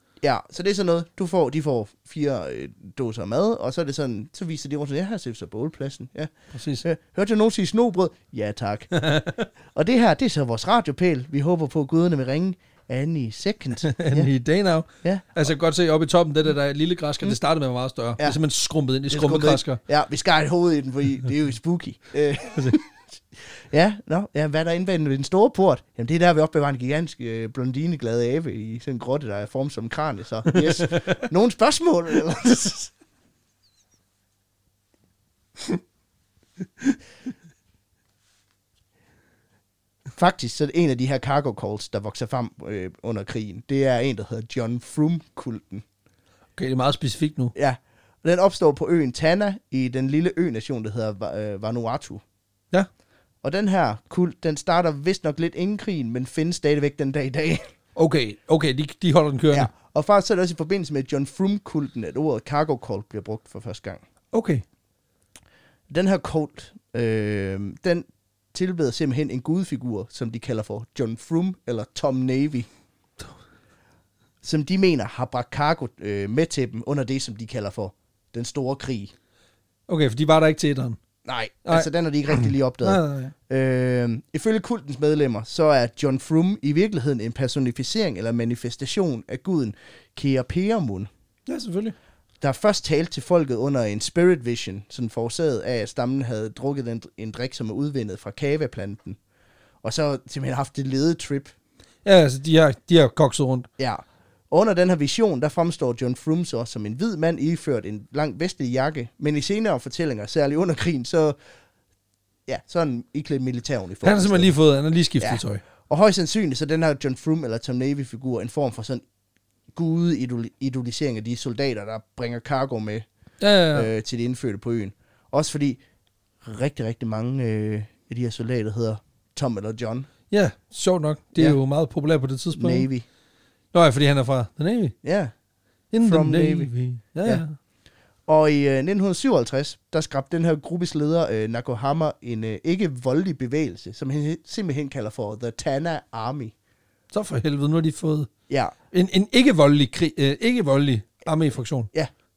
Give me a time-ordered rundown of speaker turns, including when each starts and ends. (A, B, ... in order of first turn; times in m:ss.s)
0:00.2-0:06.3 A
0:06.5-0:06.8 B
0:06.8-0:08.9 A
0:09.0-0:09.5 B
0:09.7-0:14.3 A
0:13.8-0:19.8 B
0:19.1-0:22.9 A
0:22.5-0:22.8 B
0:23.6-0:32.9 A
0:30.5-0:31.2 B
0:40.2-0:45.8 A
0:46.6-0:47.5 B
0:47.6-0:52.2 A
0:53.4-0:57.6 A
0:58.0-0:59.7 B
0:59.5-1:04.0 A
1:04.3-1:04.6 B
1:05.9-1:12.7 A
1:14.4-1:19.1 A
1:19.9-1:21.0 B
1:21.2-1:31.1 A
1:21.7-1:23.3 B
1:31.5-1:32.0 B
1:32.4-1:39.2 A
1:39.8-1:41.5 A
1:42.0-1:43.7 B
1:43.8-1:51.4 A
1:52.5-1:54.5 A
1:54.0-1:55.6 B
1:55.2-1:59.0 A
1:59.7-2:03.0 A
2:03.4-2:03.9 B
2:03.7-2:05.8 A
2:06.4-2:10.1 A
2:10.3-2:12.9 B
2:12.6-2:13.1 A
2:13.7-2:15.0 B
2:15.0-2:15.3 A
2:15.9-2:17.6 B
2:16.0-2:16.7 A
2:18.3-2:26.6 A
2:27.1-2:28.3 B
2:28.5-2:28.7 A
2:28.9-2:31.9 B